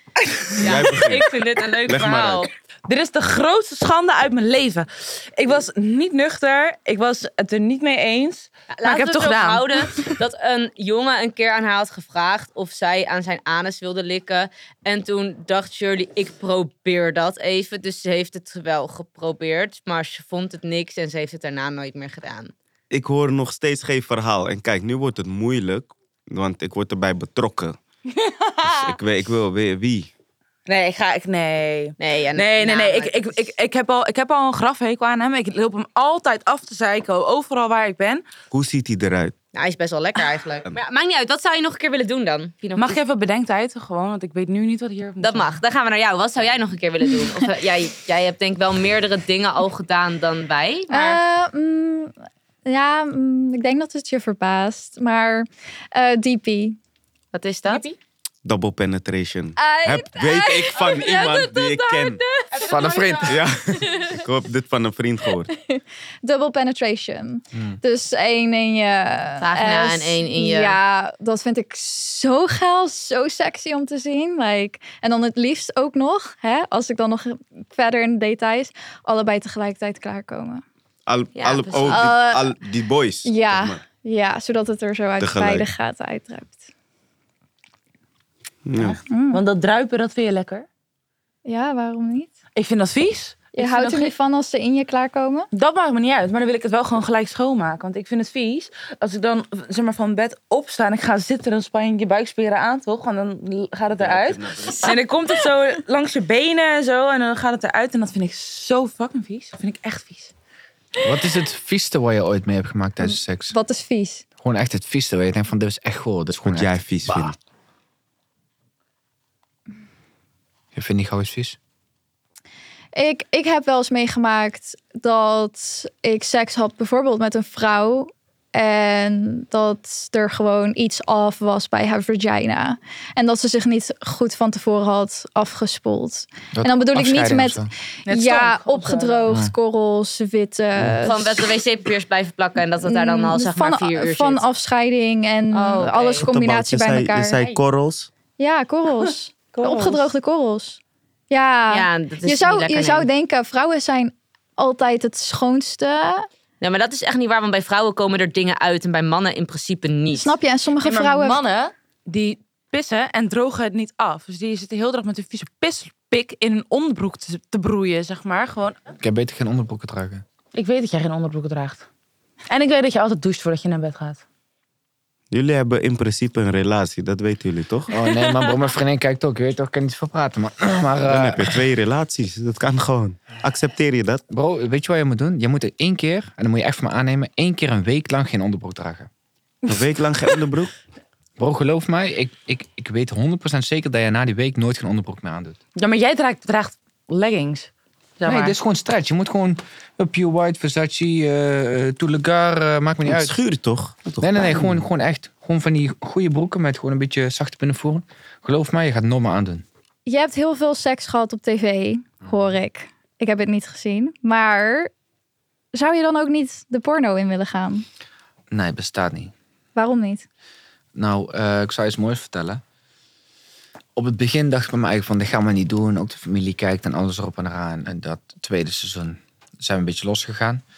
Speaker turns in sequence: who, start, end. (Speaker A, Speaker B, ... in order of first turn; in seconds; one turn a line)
Speaker A: 0.2-0.9
Speaker B: 0.6-1.3
Speaker C: 0.6-2.5
Speaker B: 1.9-2.5
Speaker A: 2.9-10.0
Speaker C: 8.7-22.5
Speaker B: 22.9-27.8
Speaker A: 28.2-28.9
Speaker B: 28.6-30.1
Speaker A: 30.7-38.2
Speaker C: 32.0-33.3
Speaker B: 38.5-39.3
Speaker C: 39.5-43.0
Speaker A: 42.8-45.6
Speaker C: 45.2-51.2
Speaker D: 50.9-52.1
Speaker D: 52.6-56.8
Speaker C: 57.3-57.9
Speaker A: 57.7-57.9
Speaker B: 58.4-62.2
Speaker D: 59.6-62.4
Speaker A: 62.5-63.4
Speaker E: 62.6-63.5
Speaker B: 63.2-65.5
Speaker D: 65.5-80.6
Speaker C: 69.4-70.8
Speaker B: 81.1-83.8
Speaker C: 81.3-82.1
Speaker D: 81.8-82.5
Speaker D: 83.2-86.6
Speaker B: 85.2-85.7
Speaker B: 88.7-89.0
Speaker A: 88.8-90.7
Speaker D: 89.1-89.4
Speaker D: 91.4-92.3
Speaker A: 92.5-94.1
Speaker D: 93.5-95.5
Speaker A: 95.5-110.3
Speaker B: 104.0-104.9
Speaker E: 111.0-113.5
Speaker D: 113.0-114.2
Speaker E: 114.4-117.3
Speaker B: 116.4-117.3
Speaker E: 120.7-121.6
Speaker D: 122.9-141.5
Speaker E: 136.5-137.7
Speaker A: 138.1-139.4
Speaker E: 139.3-139.5
Speaker C: 141.0-144.4
Speaker D: 142.8-147.5
Speaker C: 145.5-146.3
Speaker B: 146.2-148.1
Speaker D: 148.4-150.8
Speaker A: 149.6-150.1
Speaker D: 151.3-156.2
Speaker C: 151.7-153.1
Speaker C: 156.6-160.3
Speaker D: 160.1-161.4
Speaker A: 160.8-168.8
Speaker E: 169.0-170.2
Speaker A: 170.5-171.8
Speaker A: 172.5-174.2
Speaker B: 175.3-177.9
Speaker E: 177.9-181.6
Speaker B: 181.0-184.2
Speaker E: 184.3-189.1
Speaker B: 189.7-190.7
Speaker E: 191.4-195.6
Speaker A: 195.8-198.6
Speaker E: 198.2-203.4
Speaker B: 203.0-204.8
Speaker E: 204.2-209.6
Speaker D: 210.1-214.9
Speaker D: 215.7-217.8
Speaker E: 218.5-219.3
Speaker D: 219.7-220.2
Speaker E: 220.9-222.6
Speaker E: 223.9-230.6